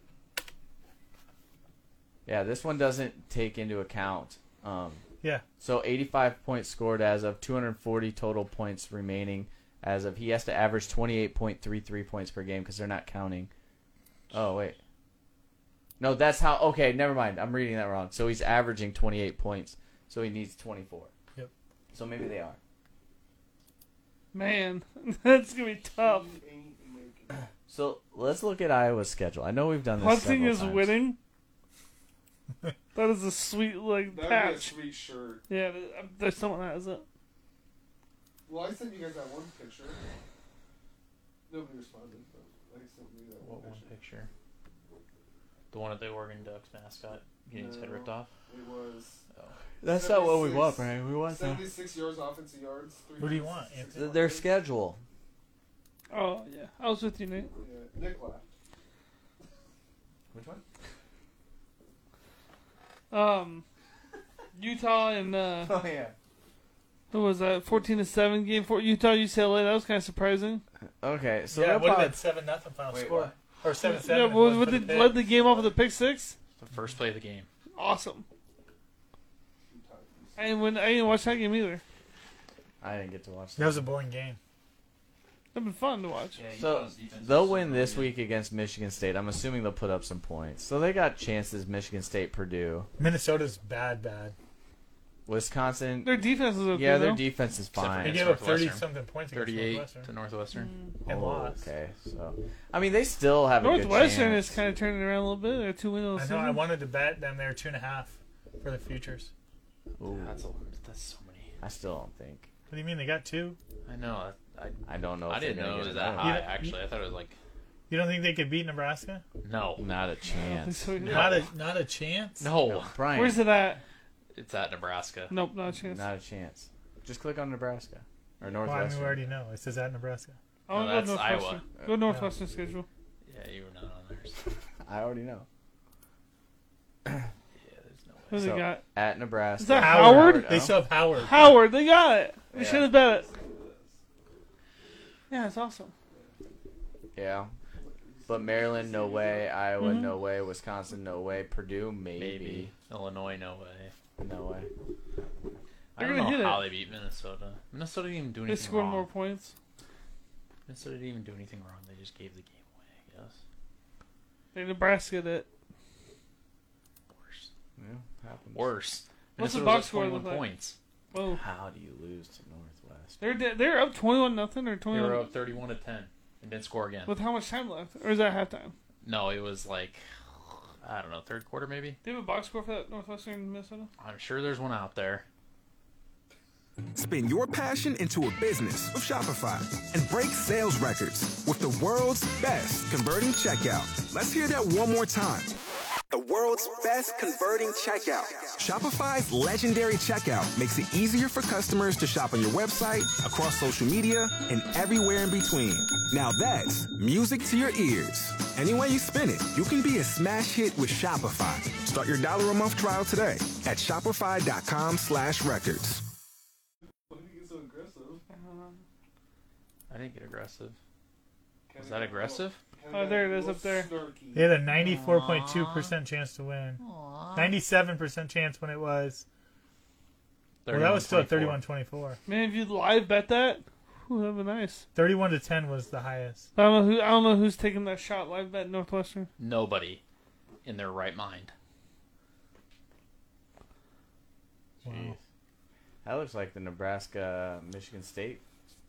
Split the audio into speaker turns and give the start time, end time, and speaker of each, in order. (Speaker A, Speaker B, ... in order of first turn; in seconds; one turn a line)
Speaker A: 2.2-5.0
Speaker A: 5.6-13.5
Speaker A: 14.3-14.8
Speaker A: 16.0-21.1
Speaker A: 21.9-22.6
Speaker B: 24.3-26.3
Speaker C: 26.0-27.5
Speaker A: 27.7-31.1
Speaker B: 30.0-31.2
Speaker B: 32.9-34.8
Speaker C: 34.1-35.4
Speaker B: 35.5-37.0
Speaker C: 38.5-40.0
Speaker C: 41.5-43.9
Speaker D: 43.4-44.3
Speaker D: 45.7-48.3
Speaker C: 47.5-49.2
Speaker A: 49.8-51.7
Speaker C: 49.9-54.5
Speaker E: 53.2-54.1
Speaker A: 53.9-55.0
Speaker B: 56.1-57.5
Speaker C: 57.6-58.5
Speaker A: 60.3-60.6
Speaker B: 63.1-63.6
Speaker B: 64.5-65.8
Speaker A: 65.6-66.1
Speaker B: 67.1-70.6
Speaker A: 71.0-72.2
Speaker E: 71.5-75.3
Speaker A: 72.9-73.4
Speaker B: 73.8-76.4
Speaker C: 75.4-75.7
Speaker D: 76.6-77.5
Speaker B: 77.7-78.2
Speaker C: 79.7-80.5
Speaker B: 80.4-81.8
Speaker A: 82.8-83.9
Speaker E: 83.6-84.4
Speaker B: 85.5-86.4
Speaker D: 86.3-88.2
Speaker A: 86.6-92.9
Speaker E: 93.0-94.3
Speaker A: 95.2-98.5
Speaker B: 96.0-97.2
Speaker D: 97.7-100.7
Speaker E: 98.0-100.1
Speaker B: 100.5-100.9
Speaker E: 101.0-101.6
Speaker A: 101.1-104.6
Speaker B: 103.6-106.7
Speaker E: 106.2-109.3
Speaker A: 110.0-110.4
Speaker D: 110.0-111.5
Speaker A: 111.6-112.5
Speaker E: 112.7-113.6
Speaker D: 113.8-117.4
Speaker A: 114.9-116.4
Speaker E: 116.2-116.7
Speaker E: 117.9-119.2
Speaker D: 119.4-119.8
Speaker A: 119.8-121.3
Speaker B: 120.3-121.5
Speaker E: 121.0-122.5
Speaker D: 122.4-123.0
Speaker A: 122.6-123.4
Speaker B: 123.1-123.8
Speaker D: 124.3-125.3
Speaker B: 125.3-126.1
Speaker A: 125.8-129.2
Speaker E: 128.6-130.4
Speaker B: 130.7-132.9
Speaker D: 130.7-131.6
Speaker D: 133.2-134.4
Speaker A: 134.8-135.5
Speaker D: 137.6-138.4
Speaker B: 138.3-138.8
Speaker A: 138.3-140.8
Speaker B: 139.6-140.6
Speaker E: 139.8-141.6
Speaker B: 141.1-143.3
Speaker A: 142.5-142.9
Speaker C: 142.9-143.9
Speaker B: 145.3-145.9
Speaker A: 147.1-147.5
Speaker C: 147.8-149.5
Speaker A: 148.3-152.7
Speaker B: 149.8-150.1
Speaker D: 152.2-153.9
Speaker A: 154.2-154.7
Speaker D: 155.9-159.1
Speaker B: 156.0-156.7
Speaker B: 158.5-159.5
Speaker D: 160.7-163.4
Speaker B: 164.5-165.5
Speaker D: 167.1-167.5
Speaker A: 167.8-168.7
Speaker D: 168.5-170.8
Speaker B: 169.4-170.5
Speaker B: 171.1-171.4
Speaker A: 171.3-173.2
Speaker B: 173.2-175.3
Speaker D: 174.9-177.1
Speaker B: 177.1-178.7
Speaker D: 179.0-180.0
Speaker D: 180.8-182.0
Speaker B: 182.0-183.9
Speaker D: 184.0-185.2
Speaker F: 186.9-195.6
Speaker F: 196.1-216.0
Speaker C: 217.1-218.2
Speaker B: 218.3-218.8
Speaker D: 219.9-220.8
Speaker C: 221.7-224.5
Speaker D: 221.8-222.6
Speaker B: 222.9-223.9
Speaker E: 224.3-226.8
Speaker D: 224.7-225.9
Speaker D: 226.8-227.6
Speaker E: 227.3-229.2
Speaker D: 230.6-231.6
Speaker E: 230.7-232.2
Speaker B: 232.2-234.8
Speaker E: 234.9-236.5
Speaker B: 236.5-239.3
Speaker D: 239.4-240.0
Speaker D: 240.6-241.5
Speaker E: 244.8-245.2
Speaker A: 244.9-245.1
Speaker A: 246.0-248.4